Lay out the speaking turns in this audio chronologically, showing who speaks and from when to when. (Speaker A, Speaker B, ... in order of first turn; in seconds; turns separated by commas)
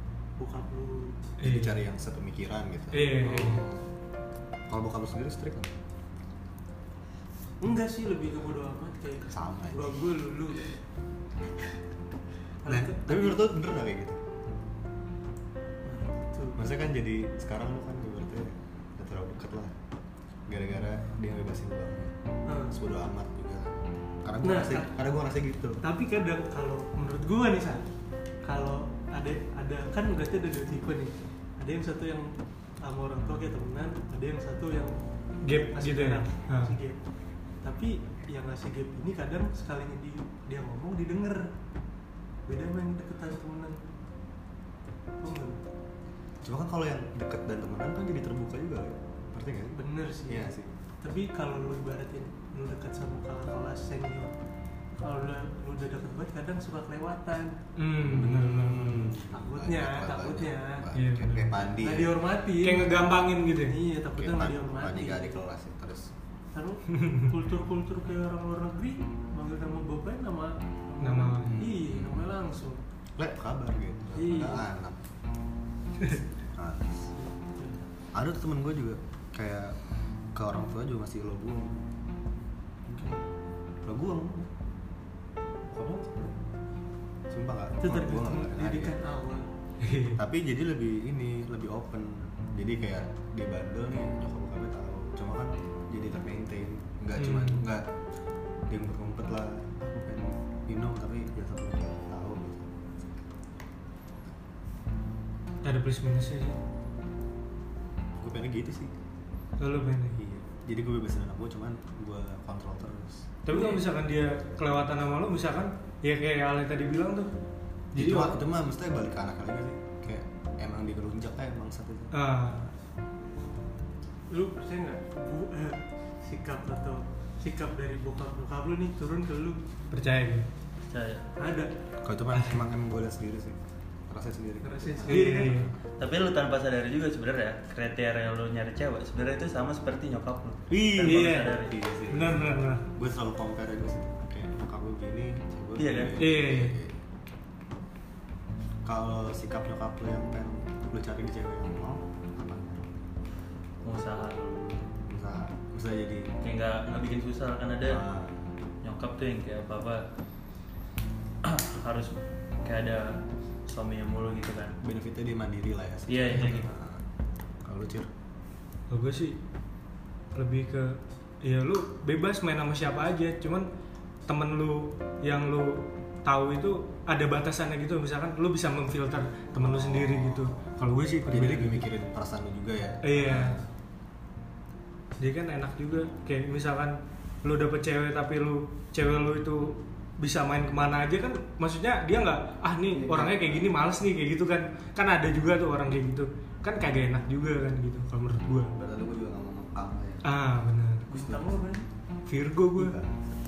Speaker A: 0.4-1.3, Speaker B: 1.4-1.8, Speaker C: 1.4-3.8, Speaker B: 2.9-3.7, Speaker C: 4.7-5.7, Speaker A: 7.6-10.8, Speaker C: 9.3-9.9, Speaker A: 12.6-13.4, Speaker C: 12.7-14.2, Speaker A: 15.8-16.6, Speaker C: 16.6-19.8, Speaker C: 20.5-22.1, Speaker A: 22.5-22.8, Speaker C: 22.7-25.8, Speaker A: 24.4-24.9, Speaker A: 25.8-27.9, Speaker A: 28.4-32.3, Speaker A: 32.8-35.0, Speaker B: 35.4-36.8, Speaker A: 35.5-37.0, Speaker A: 37.6-41.5, Speaker A: 42.5-43.8, Speaker A: 45.2-45.6, Speaker C: 46.4-50.7, Speaker A: 49.7-54.4, Speaker A: 55.0-57.6, Speaker B: 57.8-59.1, Speaker C: 58.0-62.2, Speaker A: 59.2-60.9, Speaker B: 60.9-61.6, Speaker A: 61.7-65.4, Speaker B: 62.6-63.8, Speaker C: 64.2-66.1, Speaker A: 66.5-72.8, Speaker B: 71.0-71.6, Speaker C: 71.4-72.3, Speaker C: 73.2-75.0, Speaker A: 74.2-74.7, Speaker C: 76.5-77.1, Speaker A: 77.2-77.8, Speaker C: 78.1-79.8, Speaker C: 80.3-81.8, Speaker C: 82.9-83.2, Speaker C: 83.8-84.5, Speaker C: 85.7-86.4, Speaker C: 87.3-89.0, Speaker A: 87.8-89.5, Speaker B: 89.8-90.2, Speaker C: 90.2-97.9, Speaker B: 97.2-97.6, Speaker C: 98.7-102.8, Speaker B: 105.6-106.6, Speaker C: 108.2-108.9, Speaker B: 109.6-110.2, Speaker C: 110.2-113.3, Speaker B: 113.5-117.3, Speaker B: 117.9-118.4, Speaker C: 118.0-122.1, Speaker B: 122.1-122.7, Speaker A: 124.3-129.6, Speaker B: 129.9-130.5, Speaker D: 130.9-131.2, Speaker A: 131.4-131.7, Speaker C: 132.0-135.7, Speaker A: 134.6-135.6, Speaker B: 135.1-135.7, Speaker D: 136.0-141.8, Speaker C: 140.7-147.0, Speaker B: 141.0-141.6, Speaker B: 142.1-142.8, Speaker D: 145.8-146.2, Speaker B: 146.2-146.8, Speaker C: 148.8-152.9, Speaker D: 153.8-154.9, Speaker C: 155.0-156.3, Speaker D: 156.4-158.0, Speaker C: 157.9-158.4, Speaker D: 158.8-160.1, Speaker D: 161.4-164.8, Speaker C: 164.8-167.0, Speaker D: 166.1-166.7, Speaker C: 167.6-168.1, Speaker B: 168.9-169.4, Speaker B: 170.3-173.7, Speaker B: 174.3-181.9, Speaker C: 179.6-180.5, Speaker C: 181.3-183.6, Speaker B: 183.0-183.6, Speaker B: 185.2-198.7, Speaker C: 192.9-193.7, Speaker C: 198.8-200.2, Speaker B: 200.2-201.1, Speaker A: 201.1-201.9, Speaker C: 201.1-201.6, Speaker B: 202.3-202.9, Speaker C: 202.7-203.2